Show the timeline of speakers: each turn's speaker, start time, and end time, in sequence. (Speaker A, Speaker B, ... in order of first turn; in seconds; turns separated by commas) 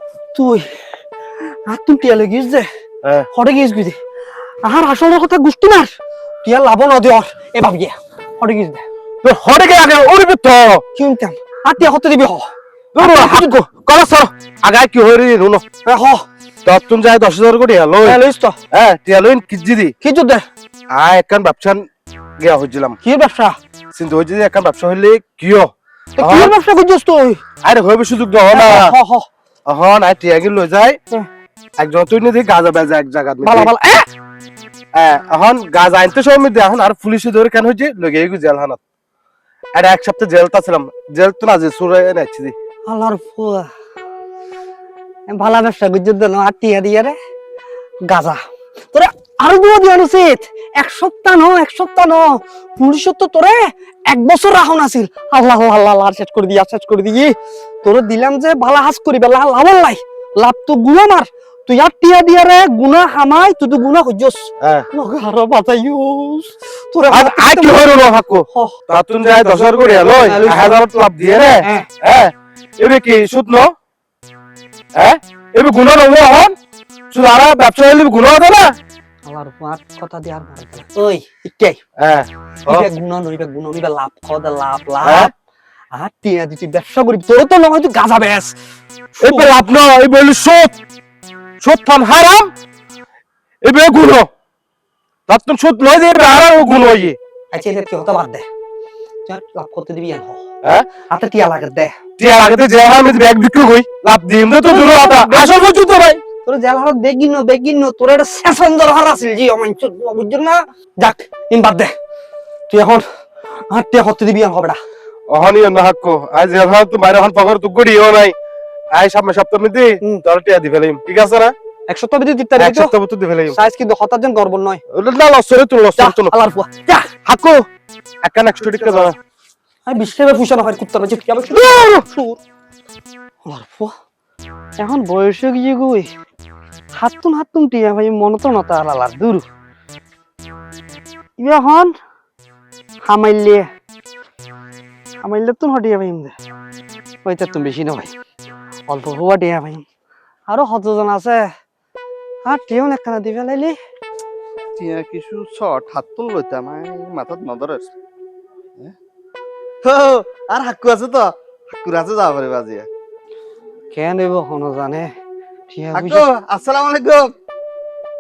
Speaker A: 0.3-0.7, Speaker A: 1.7-2.7, Speaker A: 3.3-4.0, Speaker A: 4.6-5.9, Speaker A: 6.4-8.8, Speaker B: 9.2-10.8, Speaker A: 11.0-12.5, Speaker B: 12.9-15.6, Speaker A: 13.0-13.6, Speaker A: 15.9-16.2, Speaker B: 16.6-18.2, Speaker A: 18.1-18.6, Speaker B: 18.7-19.9, Speaker A: 20.0-20.4, Speaker B: 20.9-21.9, Speaker B: 22.4-23.0, Speaker A: 23.0-23.6, Speaker B: 23.9-26.5, Speaker A: 26.2-27.4, Speaker B: 27.6-28.9, Speaker A: 28.5-29.3, Speaker B: 29.7-31.0, Speaker B: 31.8-33.7, Speaker A: 33.4-34.1, Speaker B: 35.0-38.8, Speaker B: 39.8-42.5, Speaker A: 42.9-43.7, Speaker A: 45.3-47.2, Speaker A: 48.1-48.4, Speaker A: 48.9-67.9, Speaker B: 64.6-64.9, Speaker B: 67.1-73.7, Speaker A: 70.2-70.8, Speaker A: 71.6-71.9, Speaker B: 75.0-76.5, Speaker B: 77.1-78.7, Speaker A: 79.3-81.8, Speaker B: 82.0-82.9, Speaker A: 82.7-85.3, Speaker B: 85.0-85.3, Speaker A: 85.9-88.5, Speaker A: 89.2-89.5, Speaker B: 89.2-90.8, Speaker B: 91.6-92.5, Speaker B: 93.7-94.3, Speaker B: 95.3-97.2, Speaker A: 97.5-98.5, Speaker A: 99.3-100.5, Speaker B: 100.6-100.9, Speaker A: 101.0-101.9, Speaker B: 102.2-106.2, Speaker A: 104.7-105.7, Speaker A: 106.4-111.9, Speaker A: 112.7-113.0, Speaker A: 113.7-114.8, Speaker B: 115.3-118.3, Speaker B: 118.9-121.5, Speaker A: 121.9-122.9, Speaker B: 122.6-123.6, Speaker A: 123.5-124.8, Speaker B: 124.9-126.3, Speaker A: 126.0-127.2, Speaker B: 127.3-127.6, Speaker B: 128.2-129.2, Speaker A: 129.9-132.4, Speaker B: 131.7-132.0, Speaker A: 133.4-133.9, Speaker A: 134.8-136.1, Speaker A: 136.9-139.4, Speaker A: 141.4-142.0, Speaker A: 143.1-143.7, Speaker A: 145.2-146.3, Speaker A: 147.2-148.1, Speaker A: 148.9-149.8, Speaker A: 150.5-151.4, Speaker A: 152.5-153.8, Speaker C: 154.8-157.9, Speaker C: 159.8-162.9, Speaker A: 163.9-165.1, Speaker A: 165.7-166.2, Speaker C: 165.9-167.3